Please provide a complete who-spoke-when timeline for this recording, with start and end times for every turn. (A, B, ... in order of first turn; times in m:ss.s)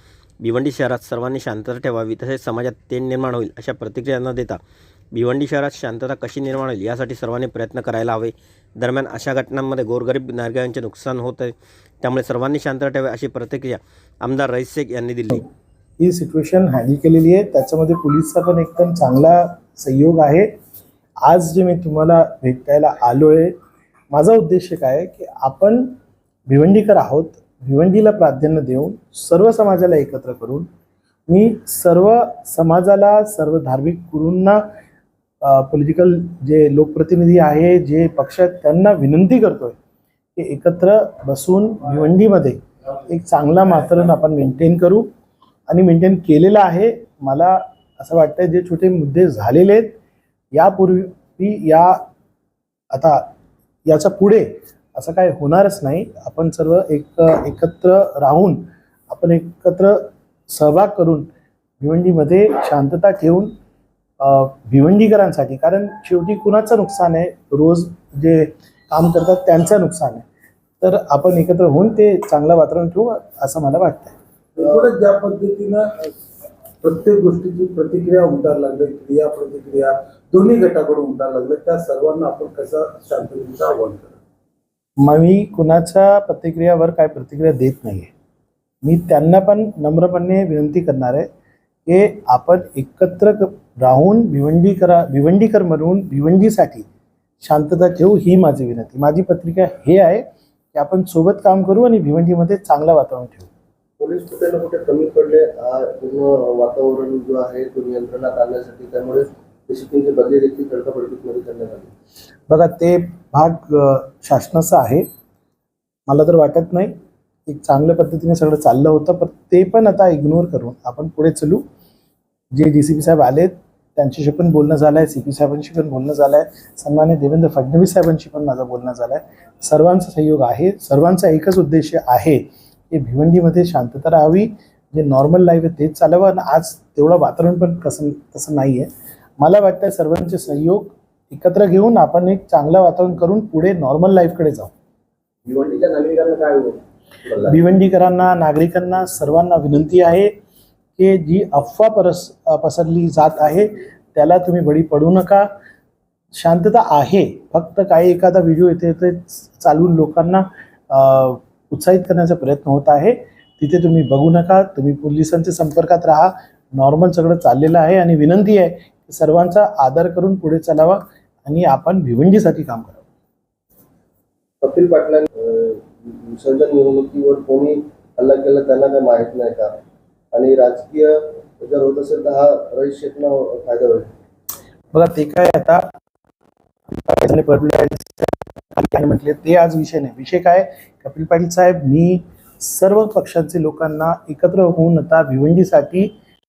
0:00.4-0:04.6 A
0:05.1-0:15.4 A
0:16.0-0:20.5 B
0:21.2-0:23.5 B
0:24.1-0:26.0 B
0:26.5-0:30.7 B
0:31.3-0:34.6 B
0:35.4-0:39.8 B
0:40.4-0:45.1 B
0:45.7-0:50.0 B
0:50.5-0:52.0 B
0:52.9-0:53.2 B
0:53.8-1:01.3 B
1:01.8-1:03.5 B
1:04.2-1:10.2 B
1:10.8-1:14.2 B
1:14.5-1:16.1 C
1:16.8-1:24.2 C
1:25.0-1:28.1 B
1:28.8-1:31.3 B
1:31.9-1:36.9 B
1:37.4-1:43.5 B
1:44.0-1:51.9 D
1:52.5-1:55.0 B
1:56.1-1:56.9 B
1:57.4-2:01.6 B
2:02.5-2:24.7 B
2:25.5-2:26.8 D
2:27.4-2:30.3 B
2:31.0-2:35.5 B
2:36.3-2:53.0 B
2:54.6-2:59.8 D
3:00.3-3:04.1 D
3:04.9-3:05.9 B
3:06.9-3:16.1 B